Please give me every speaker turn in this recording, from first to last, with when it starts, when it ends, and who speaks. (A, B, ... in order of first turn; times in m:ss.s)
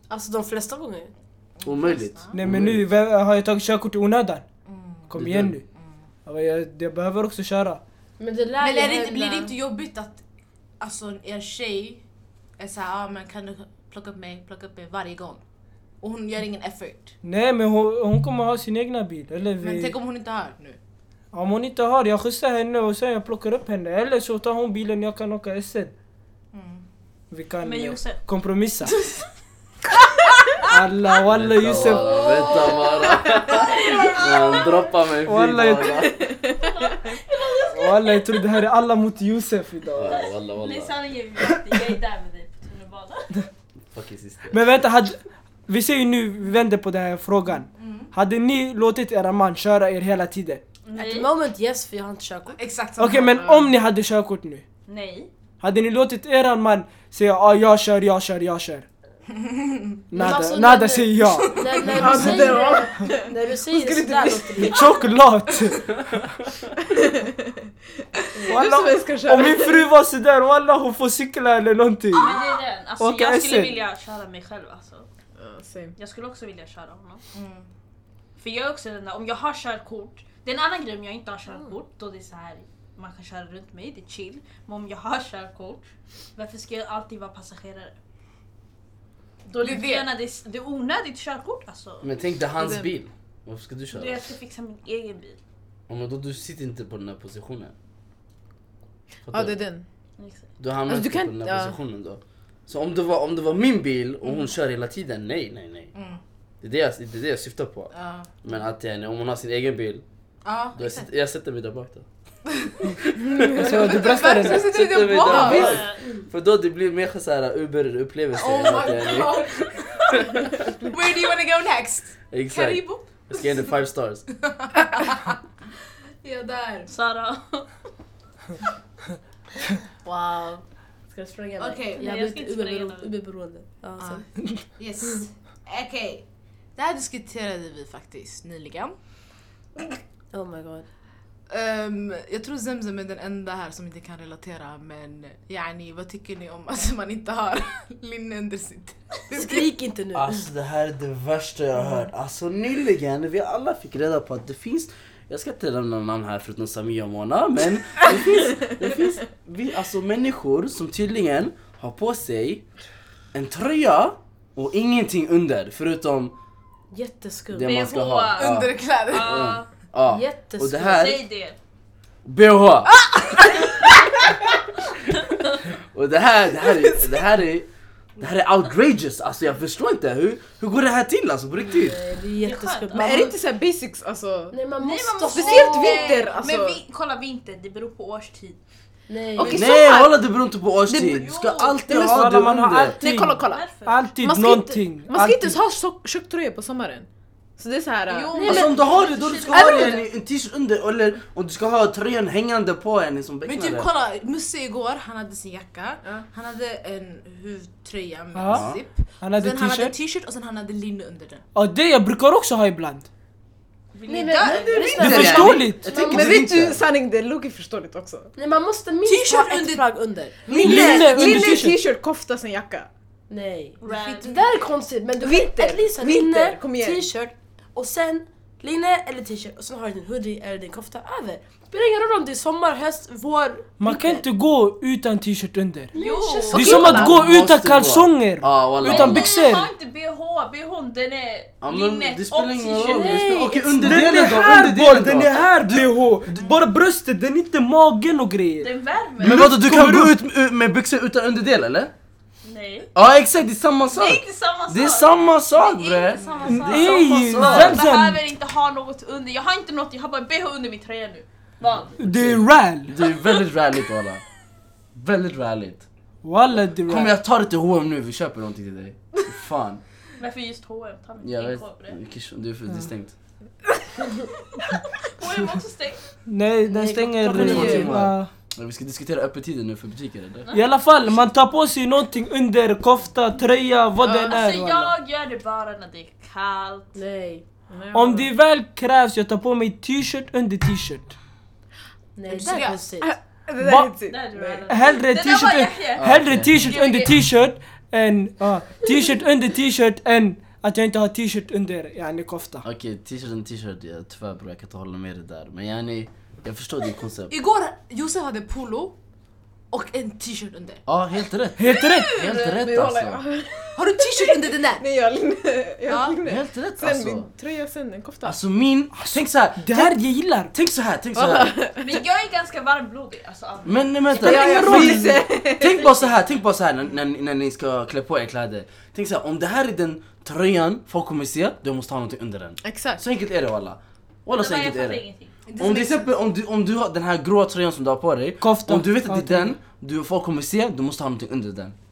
0:00.1-0:01.1 A
0:01.6-0:02.4 B
0:01.6-0:02.8 C
0:02.3-0:04.4 D
0:04.7-0:05.1 B
0:05.1-0:05.6 D
0:05.2-0:05.6 C
0:06.3-0:07.8 D
0:08.2-0:09.6 A
0:08.6-0:10.2 B
0:10.8-0:12.0 B
0:12.6-0:15.4 B
0:16.0-0:17.1 B
0:17.2-0:20.0 D
0:19.6-0:20.8 B
0:21.3-0:25.9 D
0:26.5-0:26.9 B
0:27.3-0:28.9 D
0:27.6-0:28.2 E
0:28.8-0:29.2 E
0:30.7-0:32.2 D
0:31.3-0:36.1 C
0:32.3-0:32.8 E
0:32.4-0:32.8 A
0:33.6-0:34.7 E
0:35.3-0:36.0 D
0:36.0-0:36.6 F
0:36.6-0:38.4 E
0:37.7-0:40.2 D
0:40.0-0:41.0 C
0:40.1-0:43.4 E
0:43.9-0:44.8 C
0:44.5-0:50.6 D
0:47.7-0:48.1 B
0:50.9-0:51.3 E
0:51.0-0:52.6 A
0:52.6-0:53.7 B
0:53.0-0:54.6 D
0:54.9-0:55.3 E
0:55.6-0:58.9 D
0:59.3-1:00.0 B
1:00.1-1:02.5 D
1:00.2-1:05.0 A
1:01.4-1:02.2 B
1:01.8-1:04.8 F
1:04.6-1:05.9 D
1:06.9-1:07.5 F
1:08.4-1:08.6 A
1:08.4-1:09.9 F
1:08.5-1:12.3 D
1:12.1-1:15.1 E
1:13.0-1:13.7 D
1:15.4-1:16.0 F
1:16.0-1:17.2 E
1:17.3-1:17.7 B
1:18.4-1:28.0 E
1:29.5-1:32.1 E
1:29.5-1:30.1 B
1:32.0-1:34.2 C
1:32.6-1:32.9 F
1:33.9-1:35.4 E
1:35.9-1:37.7 C
1:39.3-1:39.6 C
1:39.3-1:39.9 F
1:40.2-1:40.4 E
1:40.6-1:45.9 C
1:40.9-1:41.8 F
1:45.9-1:46.2 B
1:46.6-1:47.9 C
1:47.9-1:48.3 B
1:48.4-1:50.0 C
1:50.4-1:51.1 B
1:50.8-1:52.1 C
1:52.8-2:00.7 C
1:53.6-1:54.7 D
1:53.6-1:55.8 B
1:55.5-1:56.0 E
1:58.3-2:00.2 B
2:00.8-2:03.6 B
2:02.3-2:04.2 C
2:04.5-2:05.4 B
2:06.2-2:06.9 B
2:06.9-2:07.7 E
2:10.0-2:14.3 A
2:11.6-2:12.2 B
2:12.0-2:13.1 E
2:14.0-2:14.3 B
2:14.8-2:16.2 B
2:16.8-2:19.0 B
2:20.3-2:20.9 A
2:21.5-2:29.7 B
2:29.3-2:30.5 A
2:30.1-2:42.6 C
2:43.3-2:46.4 C
2:46.9-2:47.7 A
2:47.5-2:51.2 C
2:47.6-2:49.7 E
2:48.4-2:49.5 B
2:50.1-2:51.0 A
2:50.8-2:51.6 E
2:52.2-2:53.0 C
2:52.9-2:53.8 B
2:55.9-3:02.0 C
3:01.7-3:03.4 A
3:02.4-3:03.2 E
3:02.9-3:04.6 F
3:04.5-3:06.3 A
3:04.8-3:08.6 E
3:05.3-3:06.8 F
3:09.1-3:09.7 A
3:09.4-3:10.1 F
3:09.4-3:09.6 E
3:09.5-3:13.0 C
3:10.9-3:11.2 F
3:10.9-3:11.8 E
3:11.9-3:12.3 F
3:11.9-3:15.6 D
3:13.0-3:13.6 F
3:13.5-3:14.0 E
3:14.2-3:18.7 F
3:18.1-3:20.0 E
3:18.3-3:18.7 A
3:18.4-3:23.9 C
3:19.5-3:20.0 F
3:23.5-3:31.4 B
3:28.3-3:28.7 D
3:28.5-3:28.8 C
3:29.2-3:30.0 D
3:31.6-3:33.1 D
3:33.9-3:35.5 E
3:34.1-3:36.5 A
3:34.4-3:36.8 C
3:35.0-3:35.9 D
3:36.0-3:38.3 F
3:38.4-3:41.3 A
3:39.0-3:39.9 B
3:40.5-3:42.9 F
3:40.6-3:41.8 D
3:43.3-3:54.2 A
3:43.8-3:44.4 E
3:43.9-3:44.6 B
3:45.2-3:47.1 F
3:53.8-3:55.9 D
3:55.9-3:57.1 A
3:55.9-3:57.0 E
3:56.5-3:57.1 F
3:56.5-3:59.7 D
3:56.6-3:59.3 C
3:58.8-4:03.4 E
4:01.6-4:06.0 C
4:02.8-4:04.1 A
4:03.7-4:08.7 D
4:08.6-4:09.5 E
4:09.2-4:11.9 C
4:09.2-4:10.2 D
4:12.4-4:12.9 E
4:13.0-4:17.8 C
4:13.9-4:22.0 E
4:16.2-4:16.7 B
4:16.4-4:18.2 D
4:22.0-4:23.0 D
4:22.0-4:24.2 C
4:24.9-4:25.9 C
4:26.2-4:27.2 D
4:26.8-4:29.8 C
4:30.2-4:32.0 E
4:31.2-4:33.1 C
4:35.1-4:36.1 E
4:36.3-4:38.3 D
4:36.7-4:37.9 A
4:37.3-4:40.5 C
4:37.4-4:37.9 F
4:40.5-4:44.9 D
4:44.0-4:44.4 F
4:44.2-4:47.0 E
4:47.0-4:47.4 A
4:47.7-4:48.3 F
4:47.9-4:51.1 D
4:52.2-4:53.1 A
4:52.3-4:52.9 B
4:53.0-4:54.7 F
4:53.6-4:53.9 D
4:54.1-4:57.1 E
4:54.7-5:02.6 D
4:56.0-4:56.7 C
5:02.6-5:07.3 C
5:07.3-5:09.0 B
5:09.7-5:10.8 B
5:10.9-5:13.2 C
5:11.6-5:12.1 D
5:12.0-5:12.5 E
5:12.2-5:18.4 F
5:13.8-5:14.8 B
5:15.9-5:16.2 B
5:16.2-5:17.3 C
5:18.2-5:21.5 C
5:18.9-5:20.5 D
5:21.2-5:22.0 F
5:21.8-5:25.0 E
5:23.6-5:35.0 C
5:24.1-5:25.8 F
5:24.2-5:25.2 D
5:25.6-5:26.1 E
5:32.6-5:33.0 F
5:34.3-5:35.3 E
5:35.5-5:36.1 B
5:35.6-5:41.8 C
5:38.4-5:39.6 D